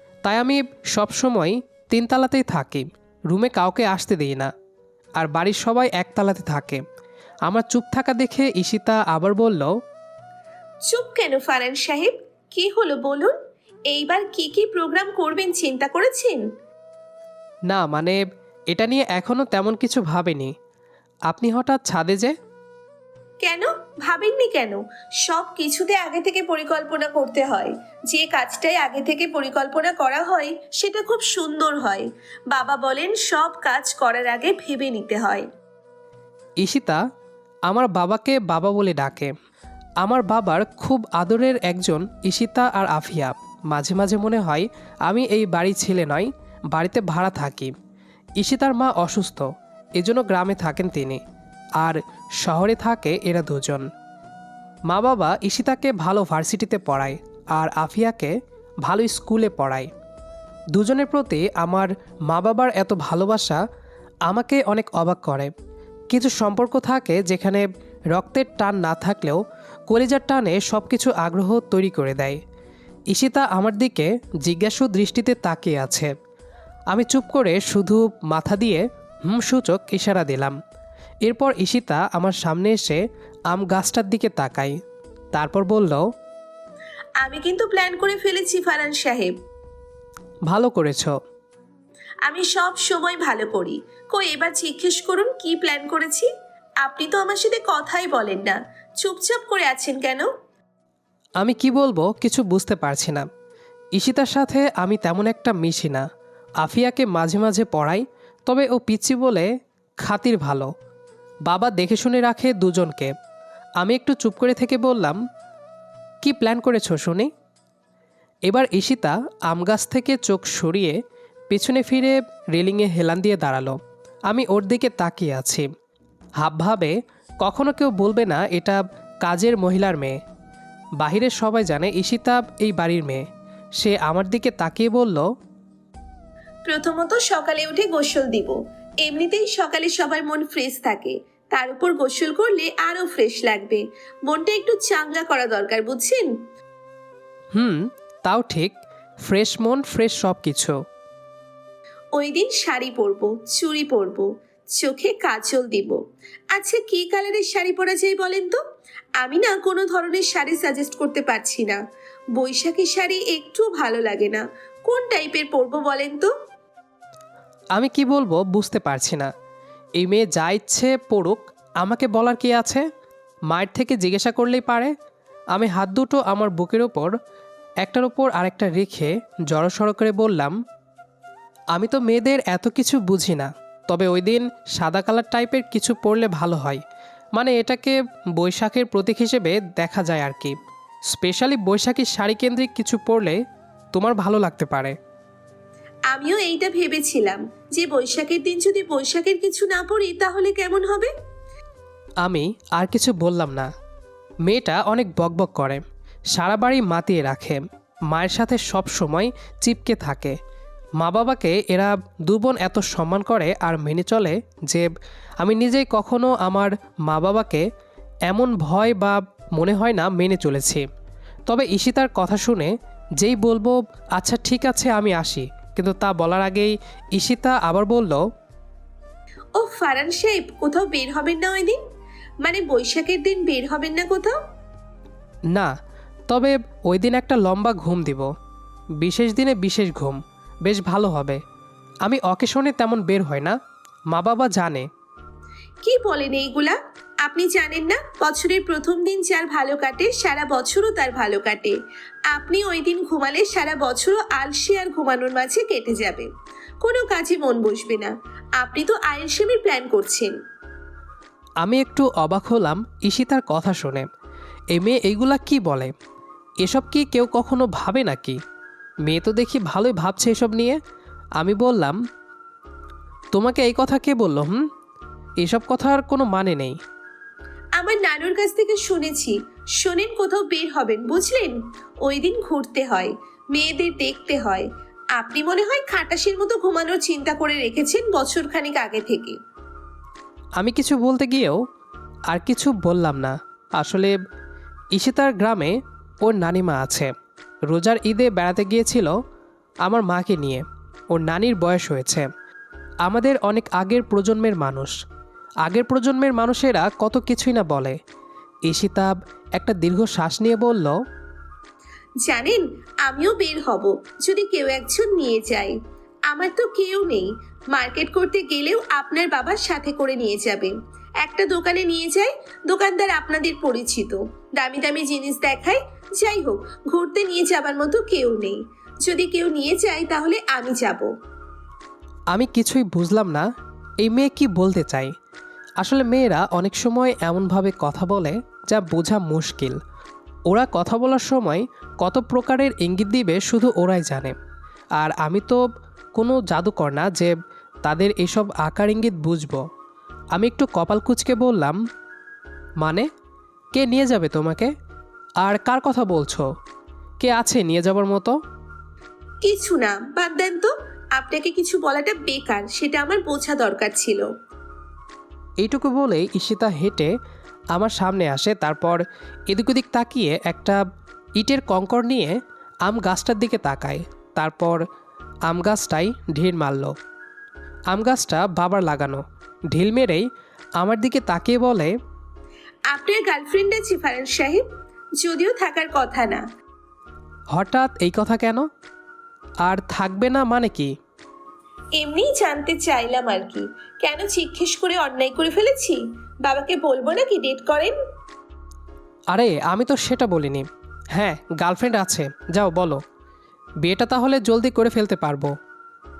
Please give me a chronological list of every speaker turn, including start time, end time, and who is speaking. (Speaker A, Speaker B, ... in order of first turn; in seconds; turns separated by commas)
Speaker A: 0.2-4.5, Speaker A: 5.2-6.8, Speaker A: 7.5-9.7, Speaker B: 10.9-13.3, Speaker B: 13.9-16.4, Speaker A: 17.7-18.2, Speaker A: 18.7-20.5, Speaker A: 21.3-22.3, Speaker B: 23.4-35.5, Speaker A: 36.6-37.0, Speaker A: 37.7-39.3, Speaker A: 40.0-47.7, Speaker A: 48.4-51.2, Speaker A: 51.8-53.9, Speaker A: 54.9-59.9, Speaker A: 60.7-63.6, Speaker A: 64.2-65.5, Speaker A: 66.1-72.4, Speaker A: 73.1-76.1, Speaker A: 76.9-80.5, Speaker A: 81.2-84.7, Speaker A: 85.3-86.0, Speaker B: 87.2-89.3, Speaker A: 90.5-91.1, Speaker B: 92.2-96.3, Speaker B: 96.8-100.3, Speaker A: 101.4-103.2, Speaker A: 104.0-106.0, Speaker A: 106.6-109.5, Speaker A: 110.0-110.7, Speaker A: 111.5-113.1, Speaker A: 113.8-115.2, Speaker A: 116.2-117.3, Speaker A: 118.5-121.0, Speaker A: 121.5-123.8, Speaker A: 124.3-125.7, Speaker A: 126.4-130.2, Speaker A: 131.0-133.2, Speaker A: 133.8-135.2, Speaker B: 136.7-146.3, Speaker A: 147.5-150.7, Speaker B: 152.2-156.0, Speaker B: 156.5-158.6, Speaker B: 159.2-161.8, Speaker B: 162.3-166.3, Speaker A: 167.8-169.3, Speaker A: 170.0-172.8, Speaker A: 173.5-174.9, Speaker A: 175.5-177.1, Speaker A: 177.8-180.5, Speaker A: 181.7-186.8, Speaker A: 187.3-190.5, Speaker A: 191.1-193.4, Speaker A: 193.9-194.9, Speaker B: 196.1-201.1, Speaker A: 202.2-203.7, Speaker A: 204.4-205.8, Speaker A: 206.3-210.3, Speaker A: 211.0-214.9, Speaker A: 215.4-217.6, Speaker A: 218.3-220.8, Speaker A: 221.5-228.2, Speaker B: 229.6-231.8, Speaker B: 232.4-234.3, Speaker A: 236.3-238.3, Speaker A: 239.0-241.4, Speaker A: 242.0-243.6, Speaker A: 244.1-244.9, Speaker B: 245.8-251.8, Speaker B: 252.3-256.3, Speaker B: 256.8-260.3, Speaker A: 261.6-264.1, Speaker A: 264.7-265.9, Speaker A: 266.6-268.4, Speaker A: 269.0-270.8, Speaker A: 271.4-272.0, Speaker A: 273.3-274.6, Speaker A: 275.4-276.8, Speaker B: 277.8-289.4, Speaker A: 290.6-291.6, Speaker A: 292.3-294.1, Speaker A: 294.9-297.1, Speaker A: 297.7-299.1, Speaker A: 299.8-302.2, Speaker A: 303.0-304.9, Speaker A: 305.6-308.0, Speaker A: 308.7-311.0, Speaker B: 312.2-315.8, Speaker B: 316.3-331.1, Speaker A: 332.3-333.4, Speaker A: 334.0-335.1, Speaker A: 335.8-339.8, Speaker A: 340.5-344.3, Speaker A: 345.0-345.6, Speaker A: 346.1-349.6, Speaker A: 350.3-351.8, Speaker A: 353.7-354.7, Speaker A: 355.4-356.4, Speaker A: 357.2-358.3, Speaker B: 359.4-364.3, Speaker A: 365.6-367.1, Speaker A: 367.7-370.8, Speaker A: 371.4-374.8, Speaker A: 375.5-376.9, Speaker A: 377.9-380.2, Speaker A: 380.8-381.9, Speaker B: 382.9-384.6, Speaker B: 385.2-386.4, Speaker A: 387.5-388.6, Speaker A: 389.6-390.9, Speaker B: 391.9-397.9, Speaker A: 399.3-403.0, Speaker A: 403.8-405.5